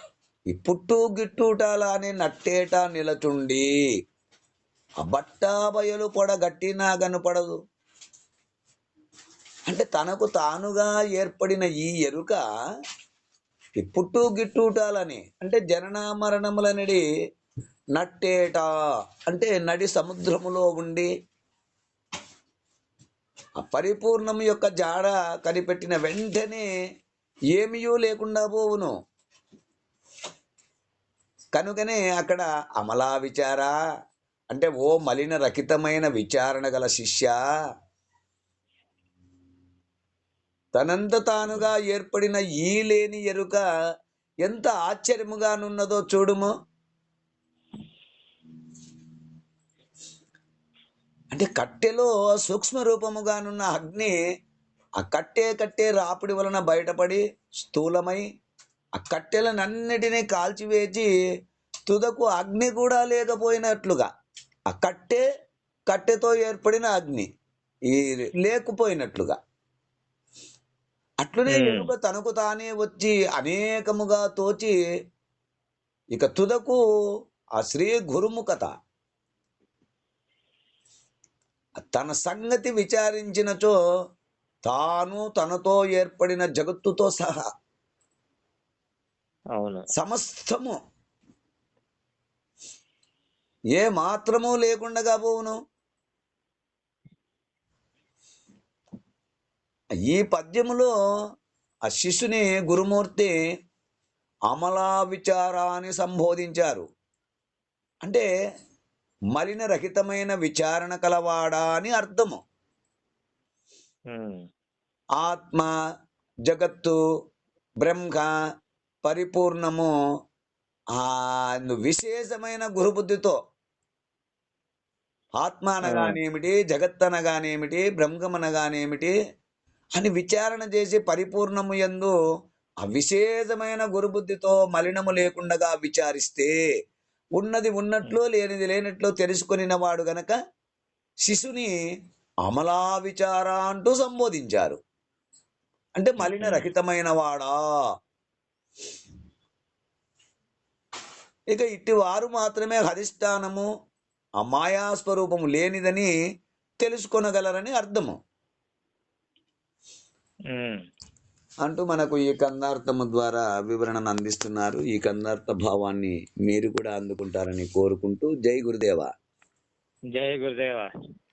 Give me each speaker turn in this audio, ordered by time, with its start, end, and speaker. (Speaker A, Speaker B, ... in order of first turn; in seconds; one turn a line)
Speaker A: 0.5-3.7
Speaker A: 5.0-7.6
Speaker A: 9.7-12.4
Speaker A: 13.8-17.0
Speaker A: 18.0-18.6
Speaker A: 19.3-21.1
Speaker A: 23.6-26.7
Speaker A: 27.5-28.9
Speaker A: 31.5-33.8
Speaker A: 34.5-37.4
Speaker A: 40.8-43.6
Speaker A: 44.5-46.5
Speaker A: 51.3-54.2
Speaker A: 55.0-58.2
Speaker A: 59.0-61.1
Speaker A: 61.9-64.1
Speaker A: 64.7-65.2
Speaker A: 65.9-67.3
Speaker A: 67.9-69.4
Speaker A: 71.2-74.8
Speaker B: 71.5-71.9
Speaker A: 76.1-76.8
Speaker A: 77.6-78.7
Speaker A: 81.9-83.8
Speaker A: 84.7-87.4
Speaker B: 89.5-89.9
Speaker A: 89.9-90.8
Speaker A: 93.8-95.6
Speaker A: 100.1-100.9
Speaker A: 101.9-103.3
Speaker A: 104.5-106.9
Speaker A: 109.3-112.4
Speaker B: 114.1-114.4
Speaker A: 115.2-115.7
Speaker A: 116.5-117.0
Speaker A: 117.8-118.3
Speaker A: 119.0-119.9
Speaker A: 121.0-123.4
Speaker A: 125.4-129.1
Speaker B: 125.9-126.2
Speaker A: 130.0-132.1
Speaker A: 132.8-136.5
Speaker A: 137.4-140.3
Speaker A: 141.2-141.7
Speaker A: 142.4-144.8
Speaker A: 146.0-147.6
Speaker B: 146.2-146.7
Speaker A: 151.5-153.7
Speaker A: 154.4-156.1
Speaker A: 156.8-158.2
Speaker B: 160.5-160.8
Speaker A: 161.7-169.1
Speaker B: 170.1-170.9